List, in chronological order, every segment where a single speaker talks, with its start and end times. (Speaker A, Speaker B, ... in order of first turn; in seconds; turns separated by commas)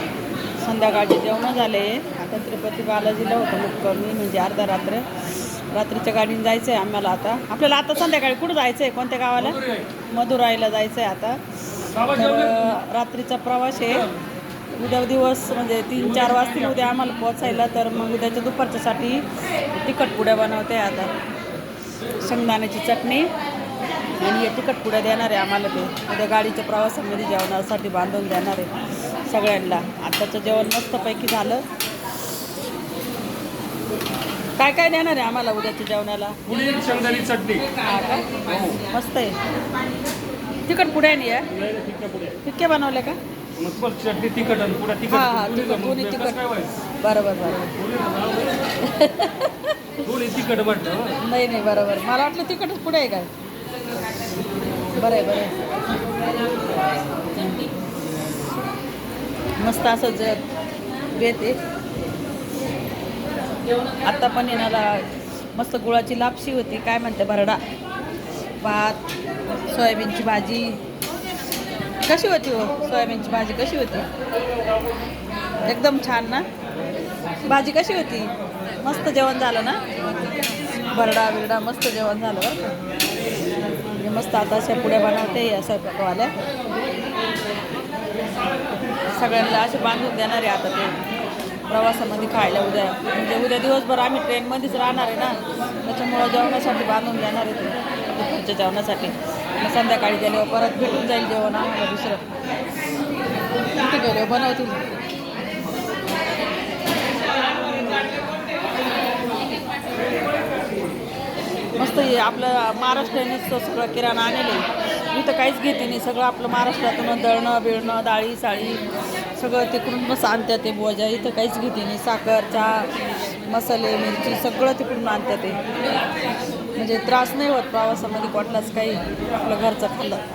Speaker A: 0.6-14.1, Speaker A: 14.8-21.1, Speaker A: 22.2-23.3, Speaker A: 24.2-28.7, Speaker A: 29.2-31.6, Speaker A: 34.6-39.4, Speaker B: 37.0-37.6, Speaker A: 40.6-41.5, Speaker B: 41.8-42.3, Speaker A: 42.4-43.2, Speaker B: 43.6-45.9, Speaker A: 45.0-47.7, Speaker A: 48.8-50.1, Speaker B: 50.1-51.1, Speaker A: 51.1-53.3, Speaker A: 55.0-55.5, Speaker A: 57.4-57.7, Speaker A: 59.6-60.4, Speaker A: 61.1-61.6, Speaker A: 64.0-67.6, Speaker A: 68.6-69.0, Speaker A: 69.7-70.8, Speaker A: 72.0-74.1, Speaker A: 75.7-76.5, Speaker A: 77.5-79.8, Speaker A: 80.8-82.8, Speaker A: 83.9-86.3, Speaker A: 89.1-91.0, Speaker A: 91.7-102.2, Speaker A: 103.7-104.9, Speaker A: 111.8-118.8, Speaker A: 119.3-122.9, Speaker A: 123.5-125.6, Speaker A: 126.8-130.2